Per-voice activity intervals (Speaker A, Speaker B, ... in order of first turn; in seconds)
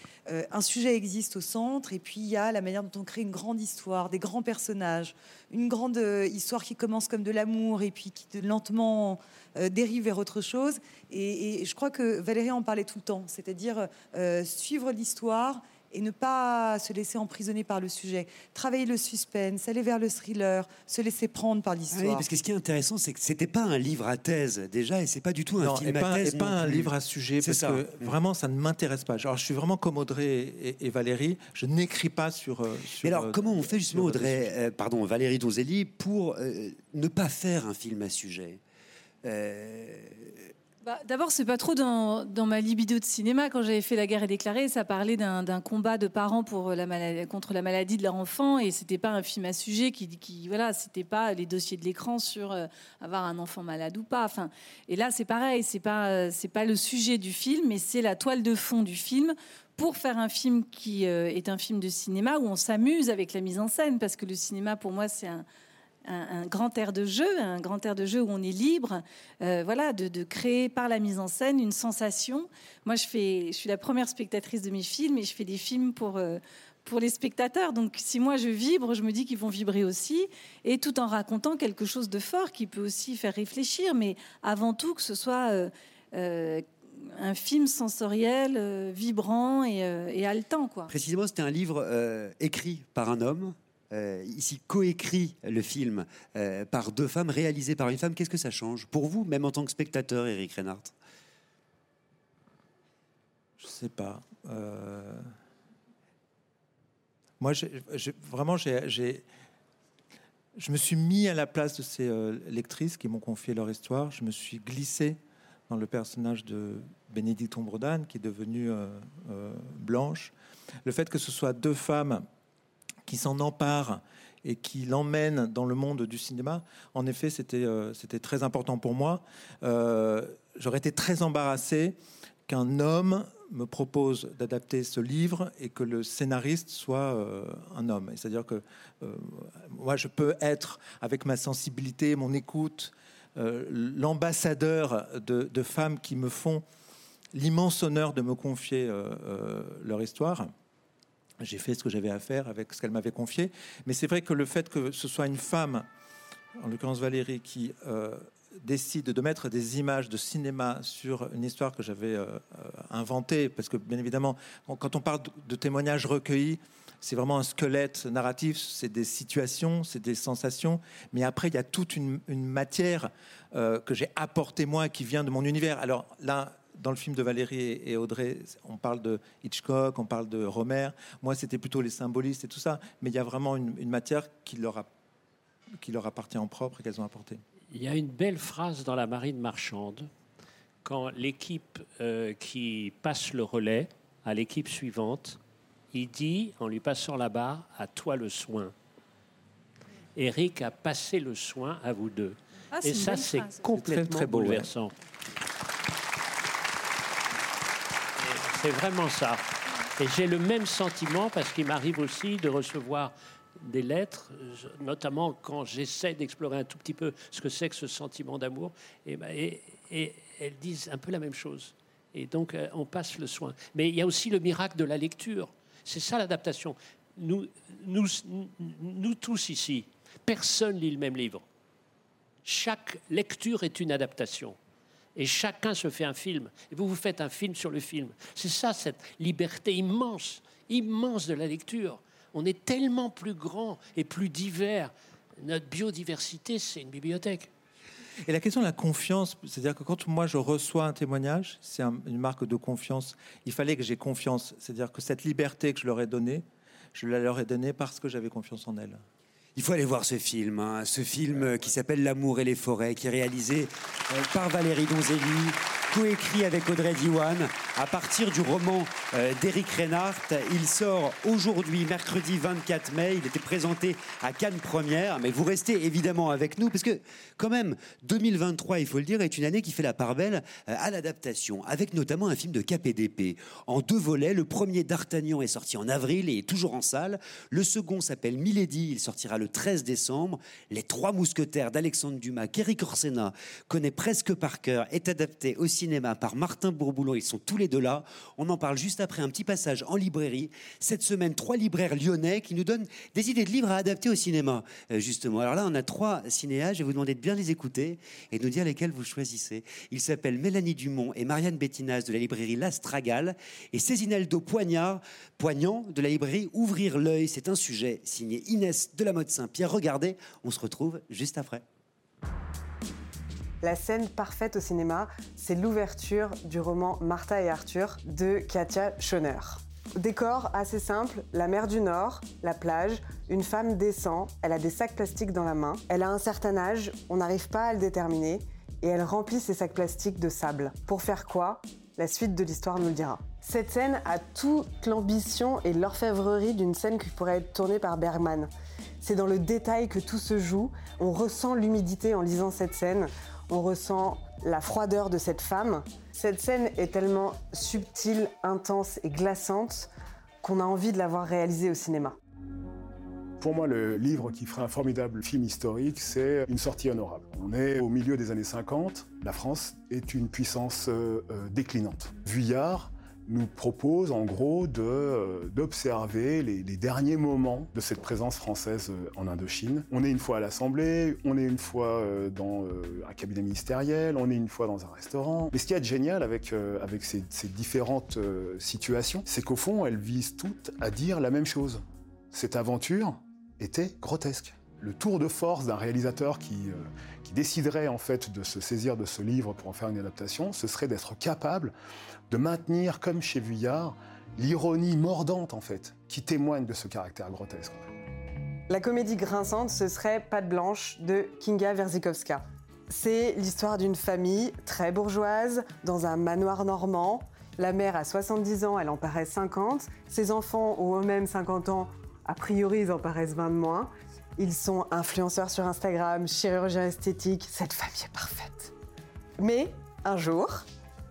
Speaker A: 0.3-22.2
Speaker B: 21.9-28.1, 33.0-38.6, 39.2-40.5, 90.9-100.9, 259.6-321.6
Speaker C: 25.6-34.5, 103.6-105.2, 107.4-109.2, 110.5-115.2, 115.7-120.3, 120.8-122.2, 123.0-132.0, 132.5-146.6, 147.3-150.5, 151.4-155.9, 156.6-184.9, 185.8-187.4, 203.7-204.7, 248.3-256.4, 256.9-259.0
Speaker D: 40.8-65.4, 66.0-90.9, 202.7-203.6
Speaker E: 187.7-190.1, 190.8-195.4, 195.9-198.7, 200.2-204.9, 208.2-231.4, 232.4-234.6, 235.2-247.5
Speaker F: 323.6-348.5, 349.0-359.9, 360.4-362.1, 408.7-428.7, 429.4-430.6
Speaker G: 363.4-401.7, 402.3-407.9